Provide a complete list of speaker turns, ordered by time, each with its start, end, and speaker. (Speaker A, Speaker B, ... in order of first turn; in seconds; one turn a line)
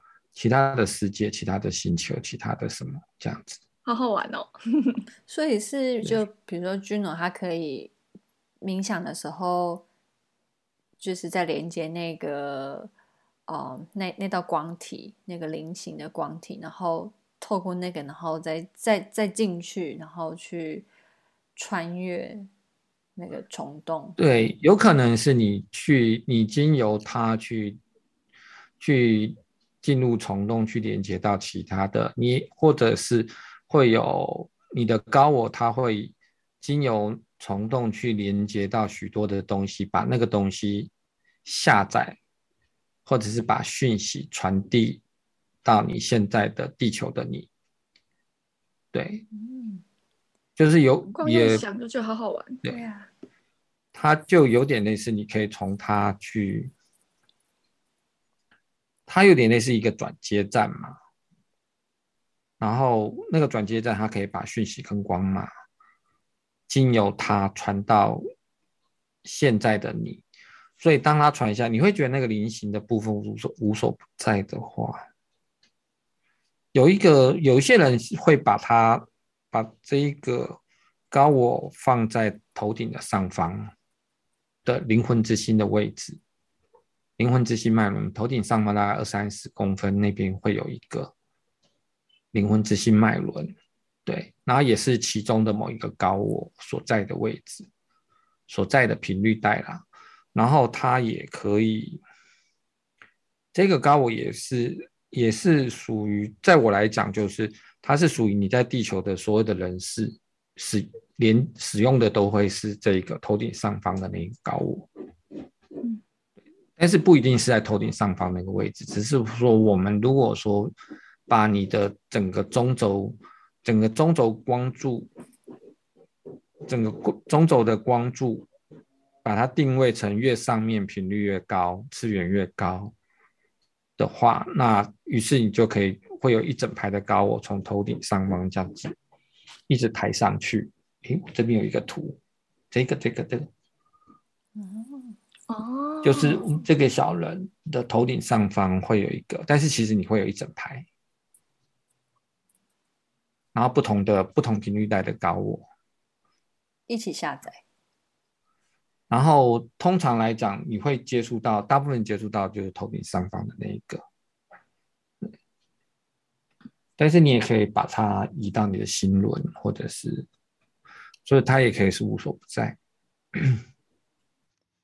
Speaker A: 0.3-3.6
Speaker B: 3.8-5.0
Speaker C: 5.3-7.9
Speaker C: 8.6-9.8
Speaker C: 11.0-12.9
Speaker C: 13.5-20.9
Speaker C: 21.6-22.5
Speaker C: 23.2-24.2
Speaker A: 24.2-27.8
Speaker A: 28.8-40.9
Speaker A: 41.4-42.2
Speaker A: 43.0-45.0
Speaker A: 45.6-47.5
Speaker A: 48.9-49.2
Speaker C: 49.3-49.8
Speaker A: 50.6-51.6
Speaker B: 51.1-52.6
Speaker C: 52.6-53.1
Speaker A: 53.9-56.7
Speaker A: 59.1-61.0
Speaker A: 62.6-65.5
Speaker A: 66.7-68.2
Speaker A: 69.2-70.2
Speaker A: 70.8-75.0
Speaker A: 76.7-80.6
Speaker A: 81.1-83.7
Speaker A: 84.6-86.2
Speaker A: 87.2-91.1
Speaker A: 92.3-93.5
Speaker A: 94.0-97.7
Speaker A: 98.5-102.0
Speaker A: 103.5-114.9
Speaker A: 116.8-120.7
Speaker A: 121.3-125.1
Speaker A: 126.7-128.5
Speaker A: 129.2-132.9
Speaker A: 134.0-138.9
Speaker A: 139.7-142.2
Speaker A: 142.7-143.5
Speaker C: 144.6-145.2
Speaker B: 145.5-146.4
Speaker A: 146.0-150.8
Speaker A: 153.5-155.7
Speaker C: 156.9-157.6
Speaker A: 159.1-164.0
Speaker A: 167.0-170.3
Speaker A: 171.2-172.8
Speaker A: 173.3-173.6